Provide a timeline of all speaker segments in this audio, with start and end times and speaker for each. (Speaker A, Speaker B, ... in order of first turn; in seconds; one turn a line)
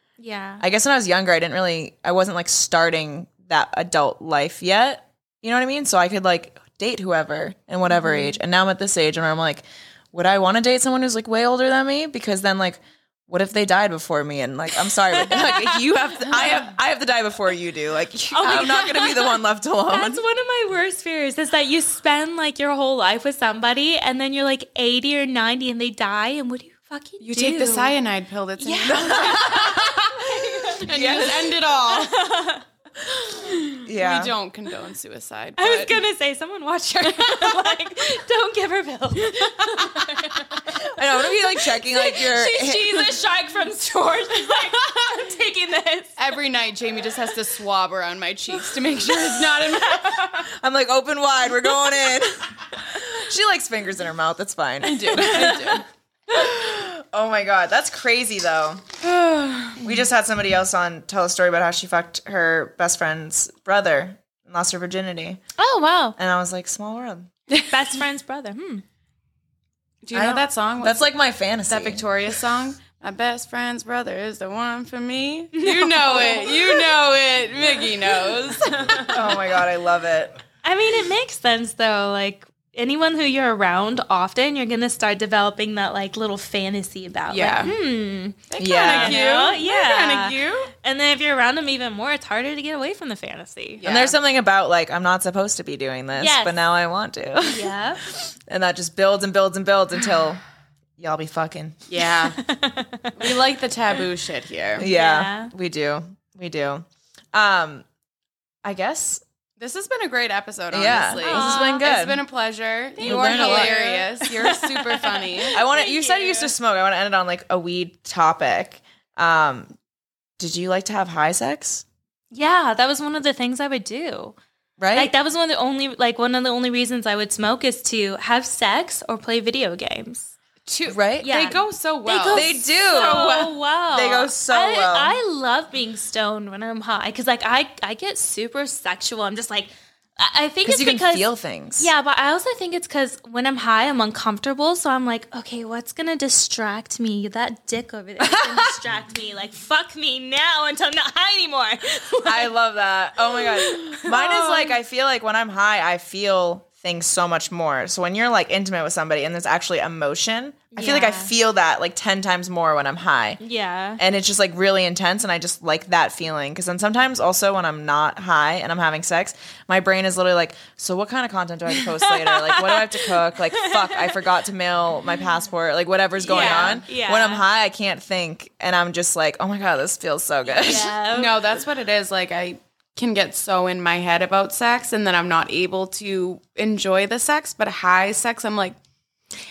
Speaker A: 0.2-0.6
Speaker B: 0.6-20.2
Speaker A: 7.9-8.4
Speaker A: 15.1-16.4
Speaker A: 18.3-19.4
Speaker A: 19.9-27.9
Speaker C: 27.2-32.2
Speaker A: 28.6-30.9
Speaker B: 28.9-30.0
Speaker B: 30.9-31.6
Speaker A: 31.9-32.6
Speaker C: 33.2-36.0
Speaker B: 33.8-34.3
Speaker A: 35.6-46.2
Speaker C: 37.1-37.7
Speaker C: 39.3-40.4
Speaker B: 40.7-43.1
Speaker C: 46.2-50.3
Speaker A: 49.5-50.5
Speaker B: 50.6-58.9
Speaker C: 54.8-55.9
Speaker A: 55.1-55.8
Speaker C: 59.0-59.8
Speaker B: 59.8-65.4
Speaker A: 65.6-66.2
Speaker B: 66.2-67.3
Speaker A: 67.7-68.8
Speaker C: 70.0-71.1
Speaker B: 70.1-72.0
Speaker C: 71.7-79.4
Speaker A: 75.5-76.9
Speaker A: 78.5-79.4
Speaker B: 79.0-80.4
Speaker A: 80.6-93.8
Speaker C: 87.3-87.7
Speaker C: 88.5-90.7
Speaker B: 88.6-89.2
Speaker C: 93.8-94.2
Speaker B: 93.8-100.4
Speaker A: 96.2-96.6
Speaker A: 97.4-98.0
Speaker B: 101.0-101.8
Speaker C: 101.9-102.4
Speaker A: 102.3-103.4
Speaker C: 103.2-104.9
Speaker B: 104.8-107.8
Speaker A: 104.9-105.5
Speaker B: 108.6-109.2
Speaker C: 109.6-115.6
Speaker B: 110.7-112.2
Speaker A: 111.2-111.9
Speaker A: 113.0-116.5
Speaker B: 113.0-113.9
Speaker B: 115.5-119.7
Speaker B: 120.4-121.8
Speaker A: 122.3-124.3
Speaker B: 124.8-125.1
Speaker A: 124.9-130.3
Speaker C: 130.7-133.6
Speaker B: 130.9-131.4
Speaker A: 131.2-152.5
Speaker B: 132.3-135.2
Speaker B: 140.6-141.9
Speaker B: 148.2-148.7
Speaker B: 152.2-163.4
Speaker A: 153.4-154.7
Speaker A: 160.7-161.3
Speaker A: 163.4-164.0
Speaker B: 164.0-180.9
Speaker A: 171.8-174.3
Speaker A: 176.2-177.4
Speaker C: 176.3-176.8
Speaker A: 180.5-181.4
Speaker C: 180.7-188.8